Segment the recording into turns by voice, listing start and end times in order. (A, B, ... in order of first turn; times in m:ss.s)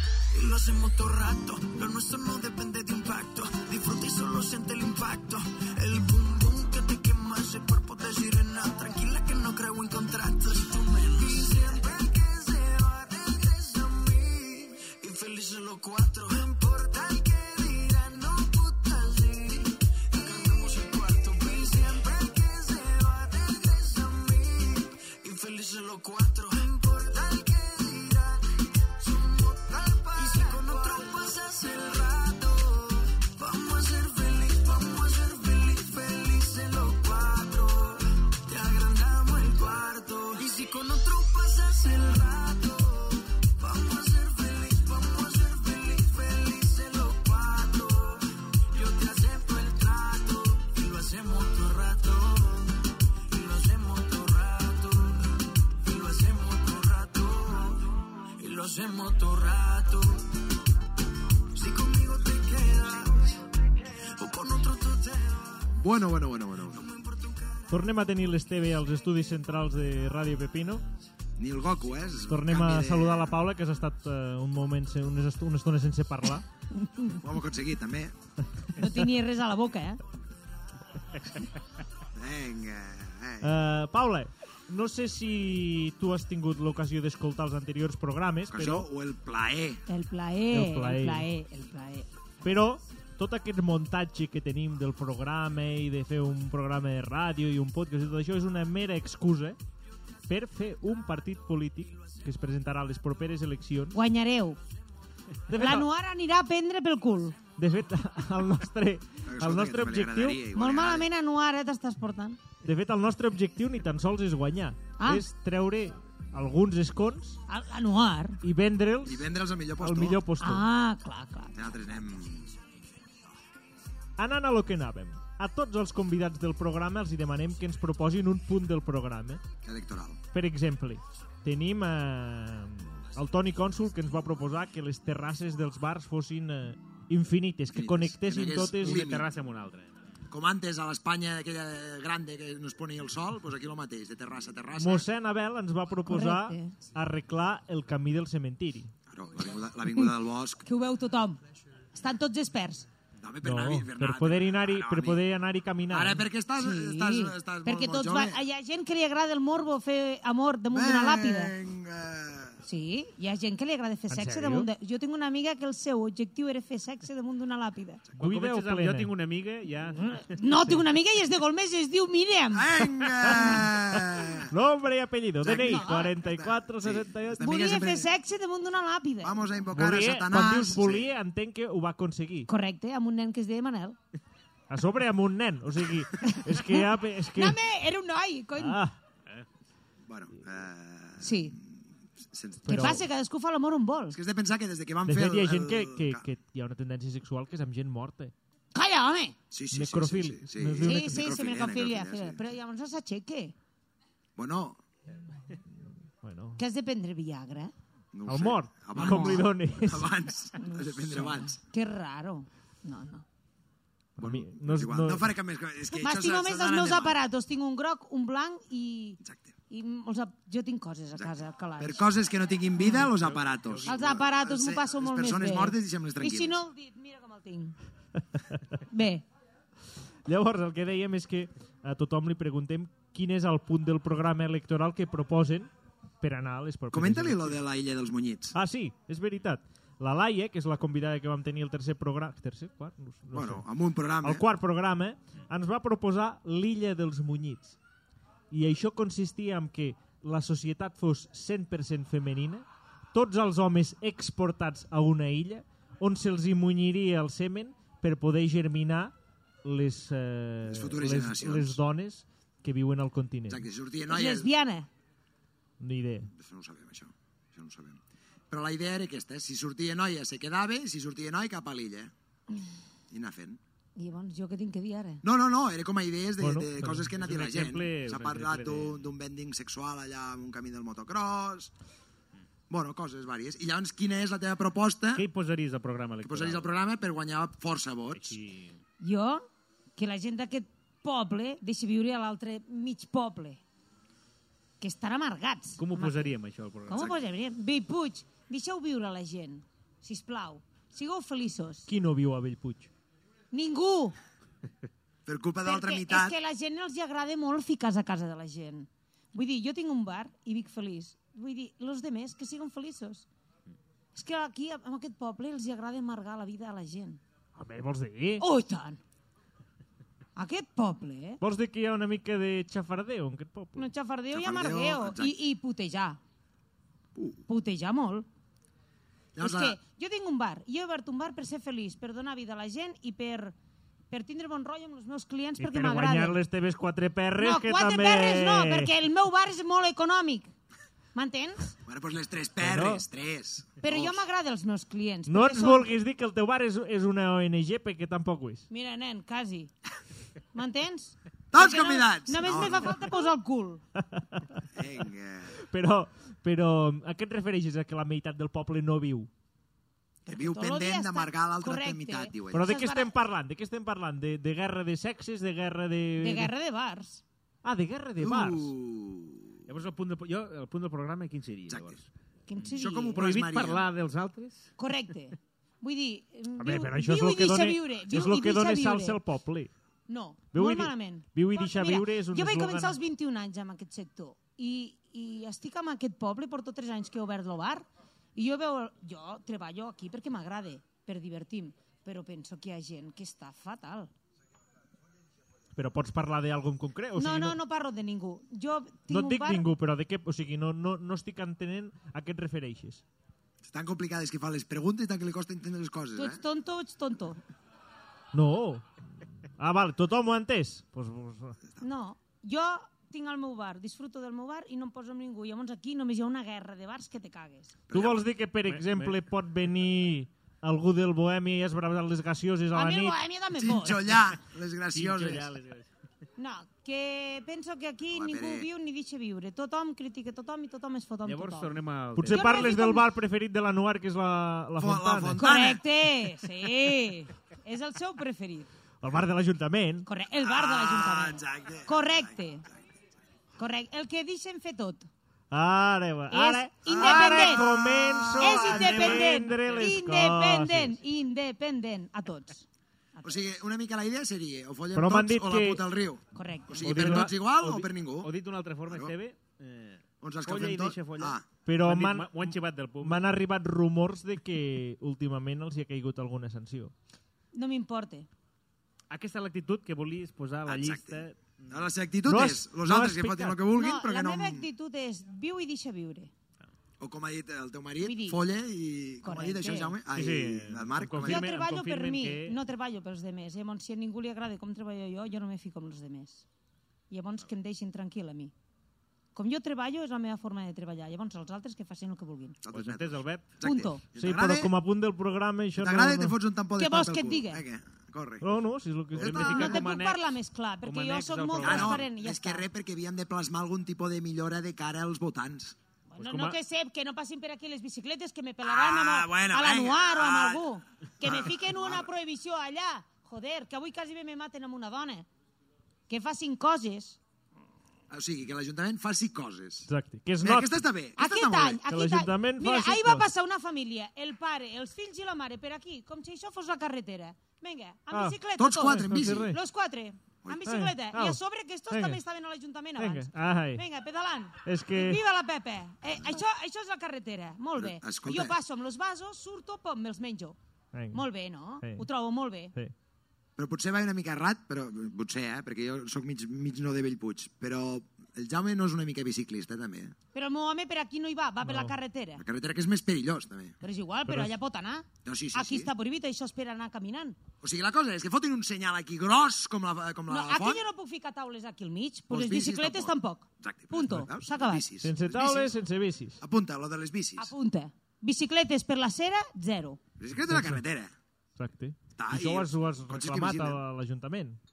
0:00.3-1:00.3 A
1:01.5-1:05.8 A
1:05.8-1:06.8 B
1:06.7-1:07.9 A
1:07.7-1:10.8 C
1:11.4-1:13.4 B
1:12.3-1:16.4 C
1:16.8-1:17.2 D
1:17.2-1:18.1 B
1:18.8-1:20.0 D
1:22.1-1:23.5 B
1:23.4-1:28.9 C
1:28.5-1:29.8 B
1:29.9-1:32.1 D
1:30.5-1:31.3 C
1:32.4-1:39.6 C
1:40.3-1:44.0 C
1:43.9-1:44.6 D
1:45.5-1:45.9 C
1:45.5-1:47.4 D
1:47.6-1:50.4 C
1:49.2-1:51.1 B
1:50.5-1:52.4 D
1:52.6-1:57.4 C
1:55.0-1:55.2 D
1:57.5-1:58.4 D
1:58.4-2:00.6 C
1:59.0-2:00.2 B
2:00.4-2:01.6 D
2:01.5-2:02.5 B
2:04.2-2:09.4 C
2:09.6-2:10.2 B
2:10.3-2:19.0 C
2:17.7-2:19.3 B
2:18.8-2:19.9 E
2:20.3-2:25.1 B
2:24.8-2:28.9 C
2:26.1-2:26.7 D
2:29.1-2:30.6 B
2:30.6-2:31.4 D
2:31.9-2:32.9 D
2:33.2-2:35.2 B
2:33.4-2:36.2 C
2:35.9-2:38.4 B
2:36.6-2:41.5 D
2:40.7-2:42.6 B
2:42.6-2:48.0 D
2:44.1-2:44.7 C
2:48.2-2:49.1 C
2:48.2-2:50.5 E
2:49.9-2:52.8 D
2:52.5-2:54.5 B
2:53.2-2:57.5 C
2:55.4-2:58.1 B
2:55.5-2:56.0 D
2:57.4-2:59.4 D
2:59.2-3:01.1 B
2:59.7-3:02.5 C
3:02.5-3:04.0 D
3:04.7-3:07.6 C
3:06.2-3:08.8 D
3:08.6-3:09.0 C
3:10.1-3:13.0 B
3:11.2-3:11.6 D
3:12.6-3:13.0 C
3:12.7-3:14.2 D
3:14.1-3:16.2 B
3:15.0-3:18.3 C
3:18.7-3:19.4 D
3:19.5-3:22.5 B
3:19.7-3:21.2 C
3:20.8-3:23.5 D
3:24.4-3:24.8 B
3:26.2-3:26.6 C
3:26.6-3:27.7 D
3:28.1-3:31.6 B
3:28.3-3:30.1 C
3:29.0-3:29.4 D
3:30.6-3:33.2 D
3:34.2-3:37.2 B
3:34.2-3:35.3 C
3:36.0-3:39.2 D
3:39.2-3:39.5 B
3:39.7-3:42.1 D
3:41.1-3:46.6 B
3:43.2-3:44.0 E
3:43.8-3:47.8 D
3:48.9-3:49.2 D
3:50.2-3:55.7 C
3:56.2-3:57.6 C
3:56.9-3:58.6 B
3:58.5-4:03.6 C
4:03.3-4:04.4 B
4:04.2-4:07.8 C
4:08.5-4:23.6 C
4:20.6-4:21.8 B
4:23.5-4:24.5 B
4:24.1-4:24.9 D
4:25.8-4:26.3 C
4:26.3-4:32.1 B
4:33.1-4:33.6 B
4:34.0-4:35.2 D
4:35.2-4:41.7 B
4:36.4-4:37.1 C
4:37.1-4:39.0 E
4:42.7-4:45.2 B
4:45.1-4:46.7 E
4:46.2-4:48.4 B
4:48.1-4:48.8 E
4:49.0-4:49.4 D
4:50.0-4:53.6 D
4:54.8-4:56.3 D
4:55.8-4:57.1 E
4:56.9-5:01.9 D
4:56.9-4:57.2 B
5:01.9-5:02.9 C
5:03.5-5:04.2 D
5:05.2-5:06.4 B
5:05.6-5:13.3 D
5:14.1-5:17.2 D
5:17.6-5:18.4 C
5:18.4-5:19.0 D
5:20.4-5:21.4 D
5:21.4-5:23.9 C
5:23.8-5:26.2 D
5:24.3-5:25.4 B
5:27.1-5:27.4 B
5:27.5-5:28.2 D
5:29.4-5:29.8 B
5:29.4-5:33.5 D
5:34.1-5:36.4 D
5:35.6-5:38.9 C
5:37.4-5:40.5 D
5:41.1-5:41.7 D
5:41.8-5:44.2 B
5:42.6-5:43.0 C
5:43.8-5:45.9 D
5:45.3-5:48.7 C
5:48.7-5:49.7 D
5:50.5-5:53.8 D
5:51.5-5:53.1 B
5:54.0-5:54.4 C
5:54.7-5:55.6 B
5:55.7-5:59.3 C
6:00.2-6:03.1 D
6:00.3-6:02.7 B
6:02.5-6:06.5 C
6:06.2-6:07.2 D
6:07.6-6:08.7 C
6:08.2-6:09.6 B
6:09.7-6:12.1 E
6:11.7-6:12.0 B
6:12.5-6:13.2 D
6:12.6-6:13.9 B
6:12.7-6:14.7 E
6:14.8-6:19.2 D
6:16.6-6:19.7 C
6:20.1-6:34.1 D
6:20.5-6:23.0 C
6:35.8-6:37.6 C
6:37.2-6:39.7 D
6:39.1-6:43.0 C
6:43.6-6:46.4 B
6:46.2-6:47.4 D
6:48.3-6:48.9 C
6:49.6-6:51.6 C
6:51.8-6:57.7 D
6:57.9-6:58.2 B
6:57.9-7:03.2 C
6:58.7-6:59.2 E
7:02.7-7:04.2 D
7:03.5-7:05.5 B
7:04.9-7:05.9 E
7:06.4-7:13.0 D
7:08.1-7:08.7 B
7:11.2-7:12.7 E
7:12.2-7:15.4 C
7:14.8-7:15.8 B
7:15.4-7:18.7 D
7:19.0-7:20.1 C
7:20.0-7:22.6 D
7:20.4-7:22.4 B
7:23.6-7:25.1 D
7:25.5-7:31.0 C
7:26.3-7:27.6 D
7:26.8-7:29.2 B
7:28.4-7:32.6 D
7:33.2-7:38.3 B
7:34.9-7:35.8 C
7:36.3-7:36.9 D
7:36.8-7:37.3 C
7:36.9-7:43.2 E
7:38.8-7:39.1 B
7:40.2-7:41.4 B
7:41.6-7:46.9 C
7:47.5-7:48.3 D
7:49.1-7:51.9 E
7:50.6-7:54.7 B
7:52.3-7:53.6 C
7:53.7-7:56.3 D
7:57.0-8:01.5 B
7:58.0-7:58.4 D
7:59.2-7:59.9 D
8:00.1-8:02.6 E
8:01.2-8:06.4 D
8:07.1-8:08.5 D
8:09.3-8:12.6 D
8:12.6-8:14.7 B
8:12.7-8:13.5 E
8:13.6-8:14.0 D
8:14.2-8:16.4 C
8:15.8-8:18.5 B
8:16.8-8:17.6 D
8:18.4-8:19.7 C
8:19.1-8:19.8 B
8:19.1-8:22.1 E
8:19.3-8:22.6 D
8:21.6-8:25.8 B
8:26.1-8:35.3 D
8:26.2-8:26.6 E
8:28.6-8:30.6 B
8:31.2-8:32.1 B
8:36.1-8:37.2 D
8:38.1-8:39.9 B
8:39.9-8:40.8 C
8:40.4-8:41.8 B
8:41.2-9:00.6 D
8:41.9-8:43.2 C
8:48.1-8:48.4 C
8:48.6-8:49.5 B
8:49.0-8:49.6 C
8:50.4-8:50.8 B
8:50.6-8:52.2 C
8:53.0-8:53.8 C
8:54.6-8:55.2 C
8:57.8-8:58.6 B
9:00.9-9:01.2 C
9:01.1-9:02.7 D
9:01.8-9:02.1 C
9:03.6-9:10.1 B
9:10.3-9:12.4 D
9:11.6-9:11.9 C
9:12.4-9:13.8 B
9:13.8-9:17.4 D
9:14.3-9:14.5 C
9:15.2-9:15.9 B
9:17.6-9:20.8 B
9:20.3-9:24.8 D
9:22.3-9:25.7 B
9:25.0-9:26.4 C
9:26.4-9:27.5 B
9:27.4-9:30.0 D
9:30.2-9:31.1 B
9:30.5-9:30.8 C
9:31.6-9:34.6 C
9:32.2-9:33.8 B